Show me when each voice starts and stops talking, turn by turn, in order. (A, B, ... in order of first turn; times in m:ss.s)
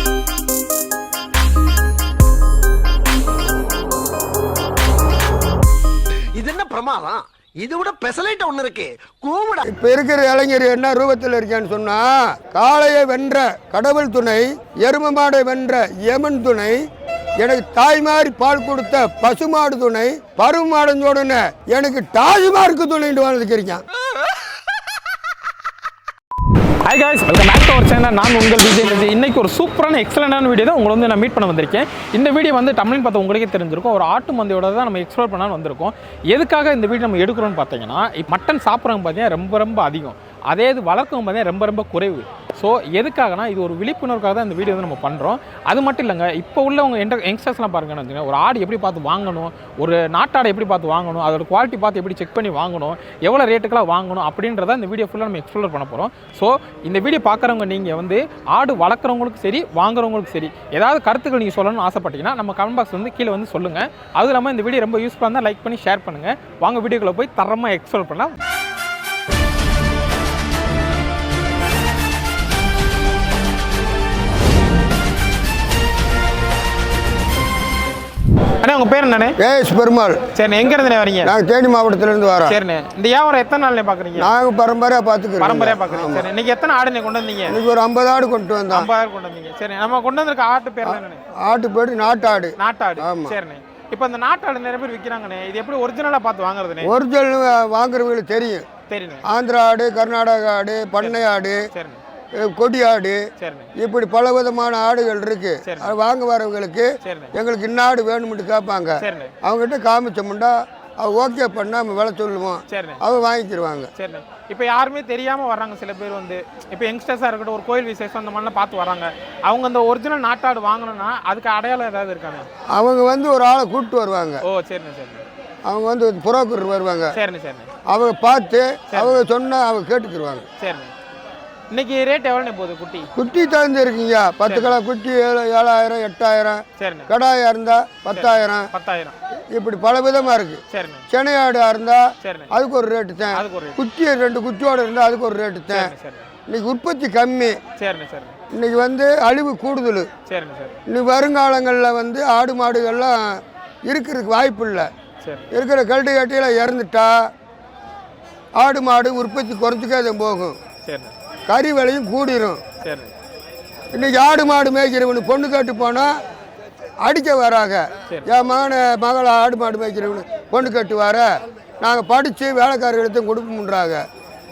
0:06.3-0:09.6 A
0:09.6-0:16.8 B
0:17.4-0:23.8 B
0:26.8-1:08.4 C
1:18.6-1:19.4 C
1:19.4-1:20.2 B
1:20.3-1:21.3 C
1:21.2-1:22.6 B
1:22.5-1:24.3 C
1:24.2-1:26.3 B
1:25.4-1:27.6 C
1:27.5-1:28.9 B
1:28.7-1:31.2 C
1:30.8-1:33.4 B
1:32.6-1:36.9 C
1:36.8-1:38.6 B
1:38.9-1:39.2 C
1:39.2-1:41.6 B
1:41.0-1:42.0 C
1:42.3-1:43.2 B
1:43.4-1:43.7 C
1:43.8-1:53.9 B
1:45.6-1:45.9 C
1:47.0-1:47.3 C
1:49.0-1:49.3 C
1:52.7-1:53.0 C
1:54.0-2:02.5 C
2:02.7-2:04.4 B
2:04.4-2:05.2 C
2:05.6-2:07.1 B
2:07.1-2:07.7 C
2:07.9-2:10.4 B
2:08.9-2:09.2 C
2:10.6-2:10.9 C
2:11.7-2:13.1 C
2:13.2-2:18.7 B
2:14.4-2:14.7 C
2:16.8-2:17.1 C
2:18.1-2:19.1 C
2:19.5-2:25.9 B
2:20.7-2:21.0 C
2:22.2-2:22.5 C
2:23.3-2:23.8 C
2:25.7-2:26.3 C
2:26.5-2:27.6 B
2:27.8-2:28.4 C
2:28.5-2:30.1 B
2:30.2-2:30.7 C
2:30.9-2:34.9 B
2:35.2-2:35.5 C
2:35.5-2:37.3 B
2:38.6-2:40.6 B
2:40.8-2:41.1 C
2:41.5-2:42.6 B
2:42.8-2:43.1 C
2:43.9-2:46.2 B
2:47.0-2:51.3 B
2:51.8-2:54.0 B